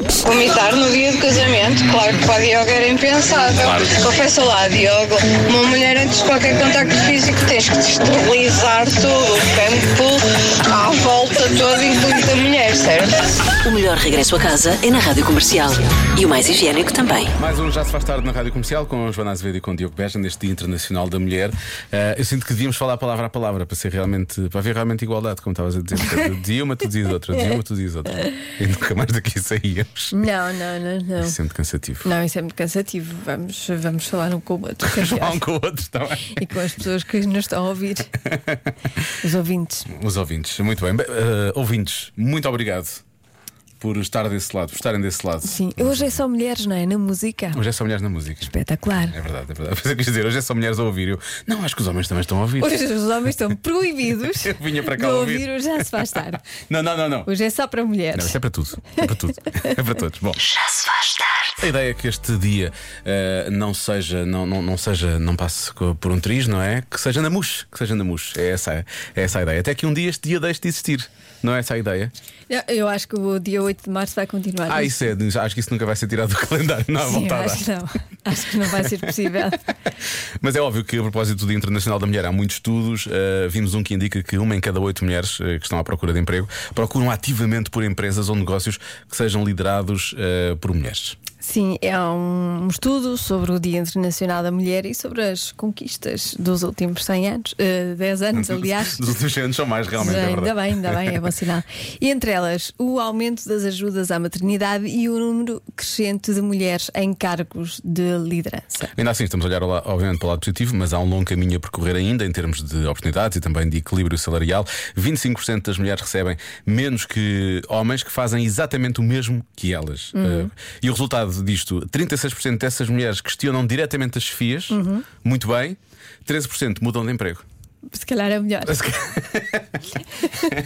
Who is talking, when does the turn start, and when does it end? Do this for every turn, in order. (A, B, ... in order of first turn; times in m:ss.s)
0:00.2-0:13.2 A
0:13.6-0:17.3 B
0:17.4-0:30.1 C
0:30.1-0:31.4 D
0:31.2-0:32.1 C
0:32.0-0:35.4 D
0:35.0-0:36.4 C
0:36.3-0:38.1 D
0:39.2-0:39.9 D
0:39.9-0:43.0 C
0:43.8-0:46.2 C
0:45.4-0:47.6 D
0:47.5-0:48.5 C
0:48.4-0:49.2 D
0:49.1-0:52.8 C
0:52.6-0:56.4 D
0:54.4-0:55.4 C
0:56.7-0:57.3 C
0:57.2-0:58.4 D
0:58.1-1:00.4 C
1:00.4-1:01.5 B
1:01.6-1:12.1 C
1:12.5-1:15.1 D
1:14.7-1:17.7 C
1:17.0-1:19.6 D
1:20.4-1:31.2 C
1:31.4-1:39.1 D
1:38.4-1:41.0 C
1:40.0-1:48.9 D
1:49.0-2:07.4 C
2:00.1-2:00.5 D
2:04.7-2:05.0 D
2:07.9-2:08.8 D
2:08.7-2:09.8 C